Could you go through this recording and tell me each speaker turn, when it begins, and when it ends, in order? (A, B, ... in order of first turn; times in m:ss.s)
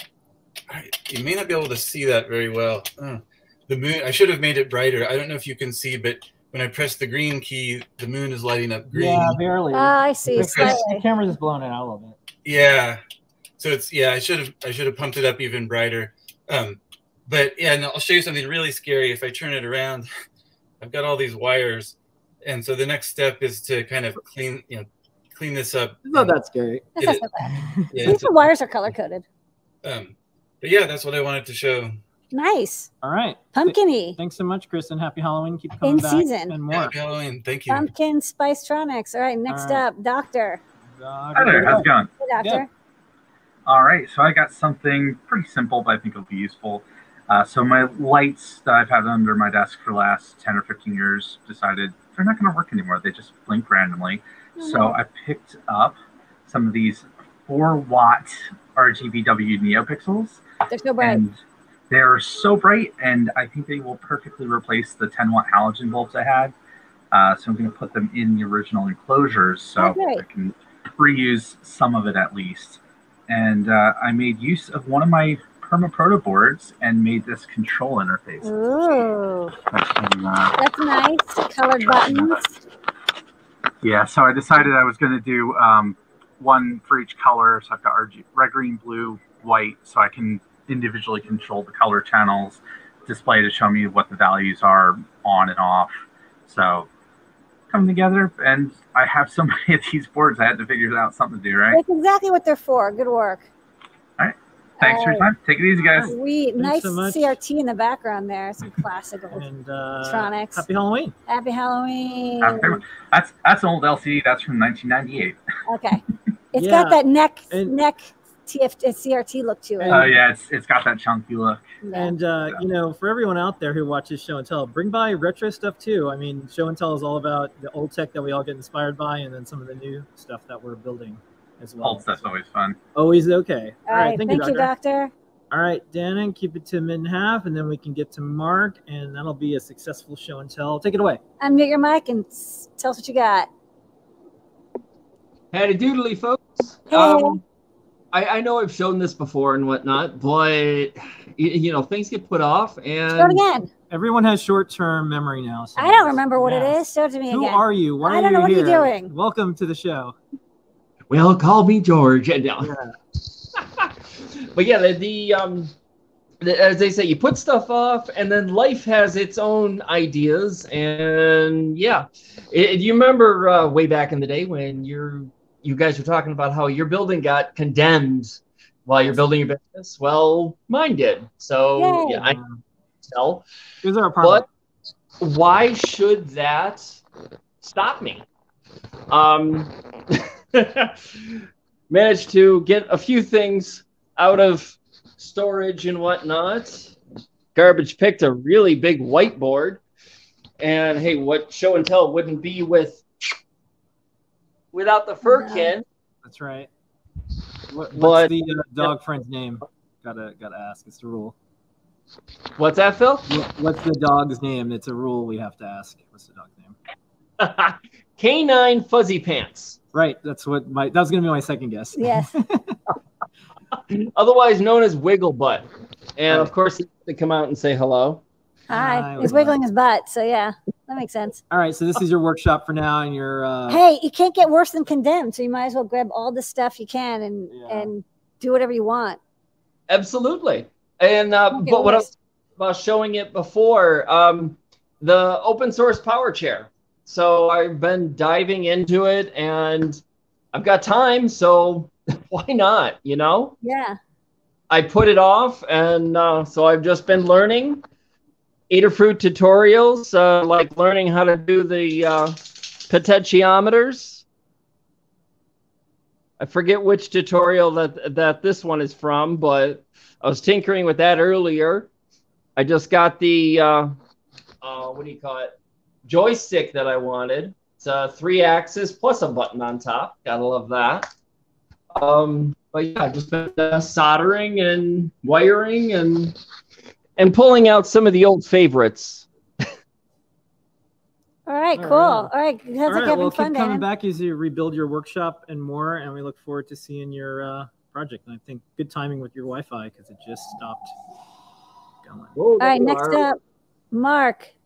0:00.7-0:09.4 A
0:08.9-0:12.2 B
0:09.7-0:11.0 C
0:10.3-0:10.8 A
0:12.4-0:13.0 A
0:13.6-0:20.1 A
0:20.8-0:26.4 A
0:26.0-0:26.8 B
0:27.0-0:29.2 C
0:27.0-0:28.5 A
0:27.6-0:27.9 B
0:29.8-0:32.0 A
0:32.3-0:32.9 C
0:33.0-0:36.9 B
0:33.5-0:34.2 C
0:35.8-0:36.6 C
0:36.7-0:37.9 A
0:37.7-0:40.6 C
0:39.5-0:39.9 B
0:41.0-0:41.9 B
0:41.3-0:42.1 D
0:41.7-0:42.7 C
0:43.7-0:56.0 D
0:54.6-0:55.0 C
0:56.5-1:00.4 D
1:00.7-1:01.2 C
1:01.0-1:01.4 D
1:01.9-1:06.5 D
1:07.1-1:19.1 D
1:09.8-1:10.2 C
1:18.4-1:19.5 C
1:19.7-1:20.6 D
1:20.6-1:22.5 C
1:21.8-1:22.4 D
1:23.8-1:36.9 D
1:37.7-1:41.8 D
1:41.7-1:43.5 C
1:44.2-1:46.1 D
1:44.8-1:45.3 C
1:45.9-1:47.4 B
1:46.0-1:49.5 C
1:49.3-1:51.2 B
1:50.0-1:50.6 C
1:51.3-1:52.8 C
1:52.4-1:55.4 D
1:55.7-1:56.0 C
1:56.5-2:00.1 C
1:56.6-1:57.7 B
1:59.8-2:00.1 B
1:59.9-2:01.7 D
2:01.8-2:02.2 C
2:01.9-2:12.3 B
2:11.8-2:12.8 D
2:13.0-2:14.7 B
2:13.9-2:15.1 C
2:15.5-2:21.2 B
2:21.4-2:23.5 C
2:25.5-2:27.4 E
2:26.9-2:27.4 C
2:28.1-2:33.4 E
2:33.2-2:33.7 C
2:33.9-2:40.2 B
2:35.8-2:39.1 C
2:41.1-2:42.7 E
2:42.6-2:42.9 B
2:43.6-2:43.9 E
2:44.6-2:45.7 E
2:46.4-3:02.4 E
3:01.8-3:02.3 C
3:02.2-3:02.6 B
3:03.0-3:03.4 E
3:03.8-3:04.4 B
3:04.2-3:04.5 E
3:05.2-3:07.0 E
3:07.6-3:08.3 E
3:09.1-3:11.3 E
3:11.9-3:17.0 E
3:17.6-3:19.8 E
3:20.6-3:23.0 E
3:24.7-3:25.8 E
3:25.2-3:25.7 C
3:26.2-3:26.7 B
3:27.7-3:31.4 B
3:28.0-3:28.8 E
3:32.6-3:33.3 E
3:33.3-3:36.8 B
3:37.4-3:39.8 E
3:39.9-3:42.8 B
3:42.0-3:42.3 C
3:43.9-3:48.2 E
3:48.7-3:51.4 C
3:48.7-3:49.6 B
3:51.5-3:53.8 B
3:53.7-3:59.2 C
3:57.5-3:57.9 B
3:59.9-4:10.0 E
4:01.5-4:02.1 C
4:10.5-4:13.6 E
4:13.6-4:14.0 C
4:14.7-4:17.8 E
4:18.7-4:24.2 E
4:26.4-4:31.9 E
4:32.6-4:34.0 E
4:34.6-4:35.5 E
4:36.0-4:41.1 E
4:41.9-4:46.4 E
4:47.2-4:49.6 E
4:51.5-4:53.8 C
4:51.8-4:52.3 B
4:52.9-5:00.9 B
5:02.0-5:02.4 B
5:02.4-5:03.2 E
5:02.6-5:03.4 C
5:03.9-5:04.5 C